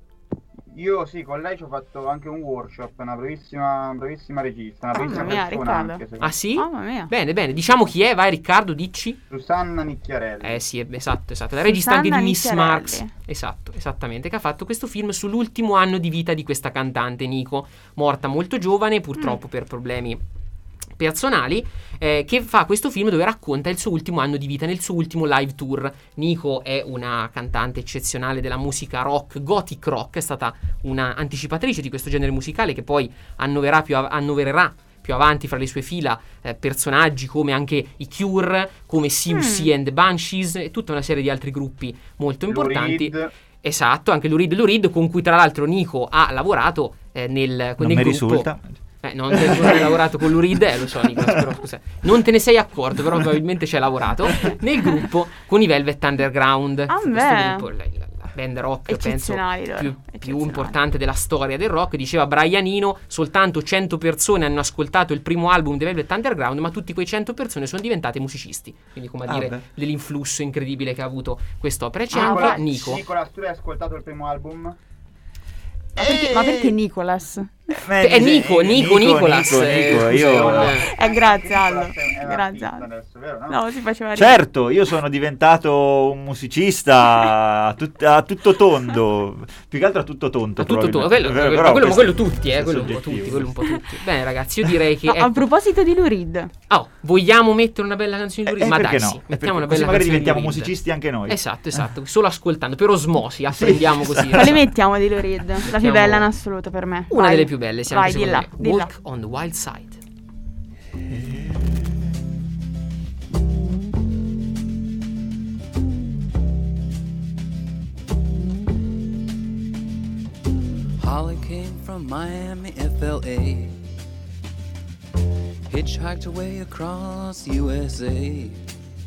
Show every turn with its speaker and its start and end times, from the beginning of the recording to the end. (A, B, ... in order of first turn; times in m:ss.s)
0:00.7-0:06.3 A
0:04.9-0:06.0 B
0:06.2-0:09.2 C
0:06.6-0:07.1 B
0:09.3-0:10.6 A
0:10.4-0:20.2 C
0:11.6-0:13.1 B
0:21.0-1:13.0 C
0:39.3-0:39.7 B
0:42.5-0:43.3 A
0:47.8-0:48.7 D
0:49.3-0:50.0 D
0:51.0-0:51.5 D
0:56.9-0:57.6 B
0:58.9-1:00.7 B
1:09.2-1:09.6 D
1:12.1-1:14.8 A
1:12.1-1:12.6 B
1:16.0-1:16.7 D
1:16.0-1:17.7 B
1:17.7-1:20.8 D
1:18.0-1:20.8 C
1:19.8-1:23.6 A
1:20.9-1:22.8 B
1:23.5-1:24.4 B
1:24.2-1:33.5 D
1:30.6-1:35.4 C
1:35.0-1:36.5 B
1:36.7-1:40.7 C
1:38.4-1:41.8 D
1:41.3-1:44.6 C
1:43.5-1:44.6 D
1:44.4-1:48.9 B
1:45.6-1:46.3 C
1:47.1-1:50.0 C
1:51.0-1:51.9 D
2:01.0-2:03.8 E
2:05.7-2:08.6 E